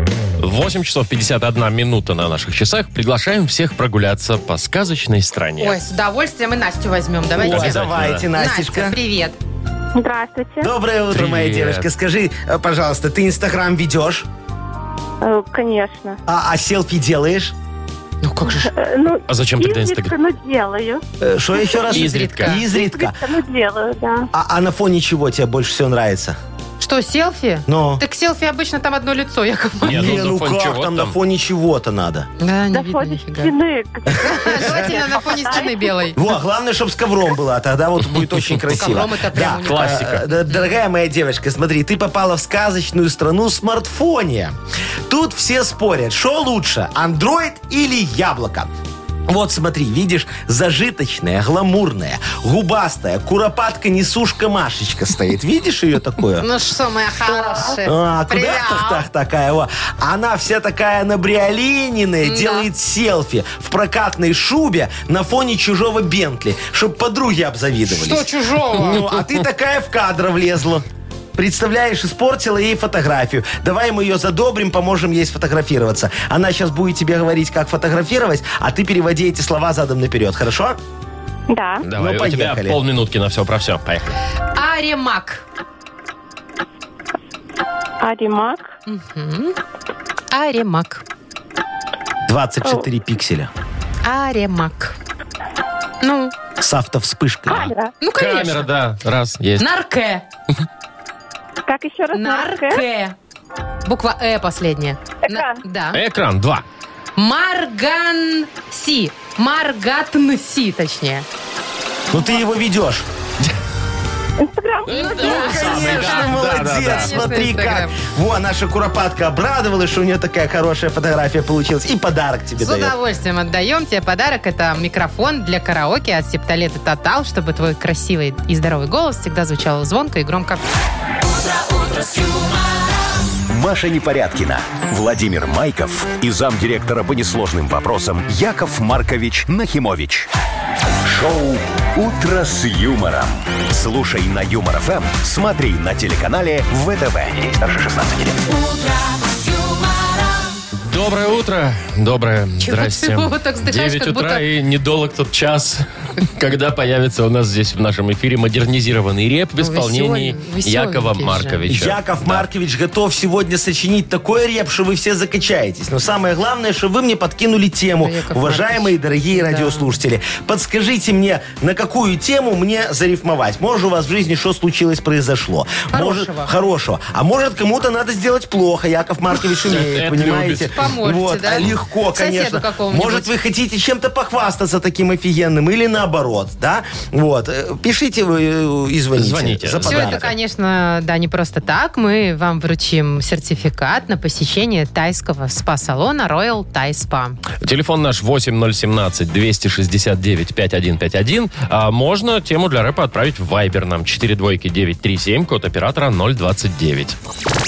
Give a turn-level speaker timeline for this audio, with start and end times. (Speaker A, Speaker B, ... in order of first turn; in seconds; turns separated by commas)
Speaker A: 0.4-5.8, Speaker B: 5.6-7.8, Speaker C: 7.4-9.0, Speaker A: 7.4-8.3, Speaker B: 8.3-9.4, Speaker D: 9.9-10.7, Speaker C: 10.6-14.3, Speaker A: 11.1-11.9, Speaker D: 15.2-16.2, Speaker C: 16.3-17.6, Speaker B: 18.2-18.7, Speaker D: 18.4-21.0, Speaker A: 19.3-20.1, Speaker C: 21.2-23.2, Speaker D: 21.6-21.8, Speaker B: 21.9-22.6, Speaker A: 21.9-22.6, Speaker D: 22.7-24.3, Speaker C: 24.3-26.4, Speaker B: 26.8-30.2, Speaker C: 27.7-28.0, Speaker A: 29.8-31.1, Speaker C: 29.8-32.3, Speaker B: 32.4-33.5, Speaker D: 32.7-36.1, Speaker C: 34.1-34.9, Speaker B: 34.2-36.2, Speaker C: 36.1-44.6, Speaker A: 38.1-39.0, Speaker B: 38.8-40.7, Speaker A: 39.6-40.3, Speaker C: 45.1-48.7, Speaker C: 49.3-56.5, Speaker B: 56.4-59.1, Speaker C: 57.8-80.8, Speaker B: 62.2-62.7, Speaker B: 67.9-69.0, Speaker D: 81.5-81.9, Speaker A: 81.8-84.2, Speaker C: 81.9-82.8, Speaker B: 84.5-85.5, Speaker D: 88.0-88.7, Speaker B: 88.9-89.6, Speaker B: 90.3-91.0, Speaker C: 92.3-93.5, Speaker B: 94.0-95.0, Speaker B: 96.0-96.3, Speaker C: 96.6-97.7, Speaker D: 97.5-97.9, Speaker B: 98.0-98.7, Speaker A: 98.2-99.7, Speaker B: 99.6-100.2, Speaker D: 101.7-102.8, Speaker B: 102.1-103.2, Speaker B: 103.8-106.0, Speaker D: 105.3-105.6, Speaker A: 105.9-106.7, Speaker B: 107.2-111.3, Speaker C: 112.1-113.1, Speaker D: 114.4-115.1, Speaker A: 114.9-117.2, Speaker B: 114.9-118.0, Speaker C: 115.2-122.9, Speaker B: 122.6-130.7, Speaker D: 131.4-132.8, Speaker E: 133.5-140.3, Speaker E: 141.0-148.4, Speaker D: 148.5-150.5, Speaker A: 150.7-162.5, Speaker B: 152.6-154.4, Speaker B: 159.6-161.6, Speaker C: 161.7-190.3, Speaker B: 168.0-169.9, Speaker B: 175.9-176.5, Speaker A: 179.6-180.8, Speaker B: 180.8-183.3, Speaker A: 189.2-190.3, Speaker B: 189.8-197.4, Speaker A: 197.6-207.2